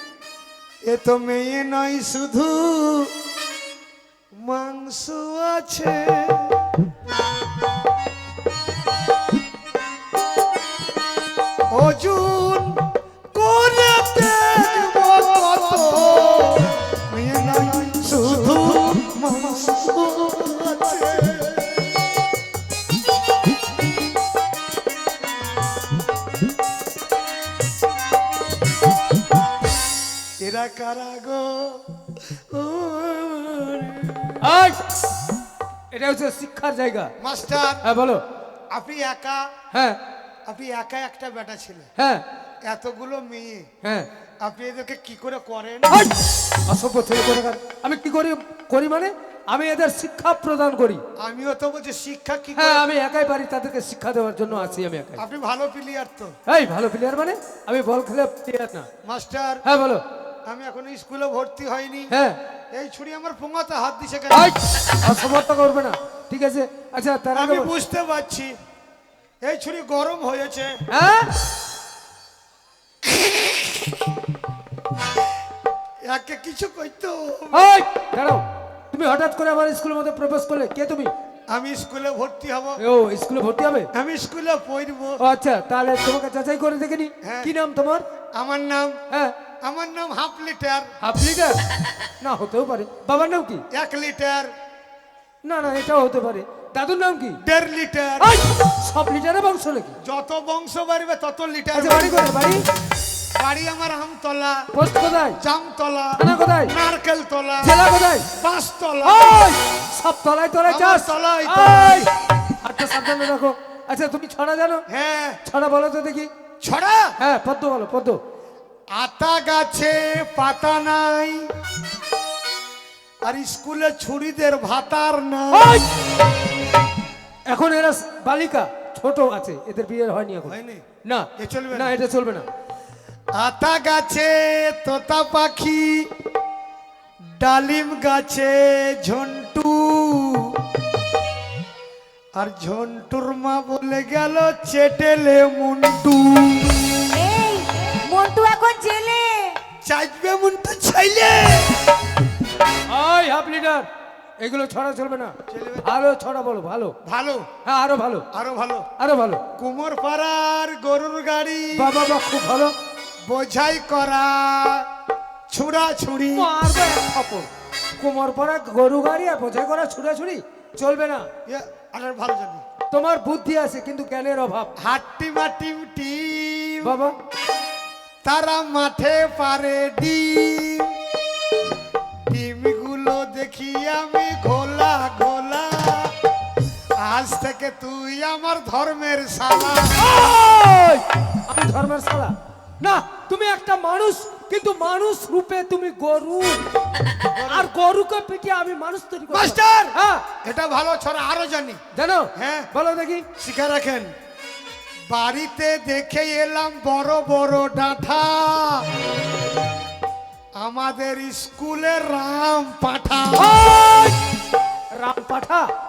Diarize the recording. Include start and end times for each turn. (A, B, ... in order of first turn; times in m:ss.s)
0:00.8-0:03.1 A
0:04.4-0:06.7 A
0:11.7-0:22.0 A
0:30.4-0:34.4 A
0:34.4-0:34.9 B
0:35.9-0:37.1 B
0:37.2-0:37.8 A
0:37.8-0:38.2 B
0:38.7-0:39.5 A
0:39.7-0:40.0 B
0:40.5-0:41.9 A
0:42.0-0:42.2 B
0:42.6-0:43.7 A
0:43.8-0:44.1 B
0:44.4-0:46.1 A
0:45.9-0:51.0 B
0:51.2-0:52.8 A
0:52.5-0:55.2 B
0:55.2-0:56.4 A
0:56.5-0:58.9 B
0:59.0-0:59.6 A
0:59.6-1:00.0 B
1:00.4-1:02.1 A
1:02.1-1:02.4 B
1:02.7-1:04.5 A
1:04.3-1:07.7 B
1:07.3-1:08.5 A
1:09.4-1:10.7 A
1:10.9-1:11.3 B
1:16.0-1:17.7 A
1:17.5-1:21.1 B
1:21.5-1:22.8 A
1:22.8-1:23.9 B
1:23.9-1:25.2 A
1:25.2-1:28.0 B
1:27.2-1:27.5 A
1:28.3-1:29.0 A
1:29.1-1:29.4 B
1:29.6-1:30.9 A
1:31.0-1:31.6 B
1:32.2-1:33.6 B
1:33.7-1:34.5 A
1:35.4-1:37.4 B
1:37.4-1:38.4 A
1:38.2-1:40.0 B
1:40.0-1:42.3 A
1:41.7-1:42.6 B
1:43.3-1:44.7 A
1:44.7-1:45.4 B
1:45.4-1:47.8 A
1:46.2-1:46.7 B
1:47.6-1:48.3 B
1:48.3-1:49.5 A
1:49.0-1:54.8 B
1:50.6-1:52.2 A
1:54.9-1:55.4 A
1:55.4-1:56.3 B
1:56.6-1:57.1 A
1:57.2-1:58.2 B
1:58.9-2:01.5 A
2:03.2-2:05.8 A
2:05.5-2:05.9 B
2:07.5-2:12.4 B
2:10.4-2:10.8 A
2:11.4-2:11.9 A
2:13.3-2:16.1 A
2:17.3-2:20.6 A
2:22.4-2:27.1 A
2:27.1-2:29.6 C
2:29.8-2:31.8 A
2:32.9-2:33.9 B
2:34.4-2:36.9 B
2:35.5-2:35.9 A
2:37.0-2:37.4 A
2:37.6-2:38.2 B
2:38.3-2:38.9 A
2:39.0-2:39.4 B
2:39.5-2:41.9 A
2:41.8-2:42.7 B
2:43.3-2:44.8 A
2:45.5-2:46.5 A
2:46.3-2:51.3 B
2:51.5-2:52.6 A
2:52.9-2:54.7 B
2:54.8-2:57.0 A
2:56.8-2:57.2 B
2:58.2-3:00.9 A
3:02.3-3:06.1 A
3:07.0-3:10.1 A
3:09.9-3:16.6 B
3:17.3-3:17.7 A
3:17.4-3:20.2 B
3:19.3-3:21.8 A
3:21.9-3:23.3 B
3:22.4-3:22.7 A
3:23.4-3:24.1 A
3:25.1-3:28.9 A
3:30.6-3:33.6 A
3:33.4-3:34.2 B
3:34.9-3:35.7 B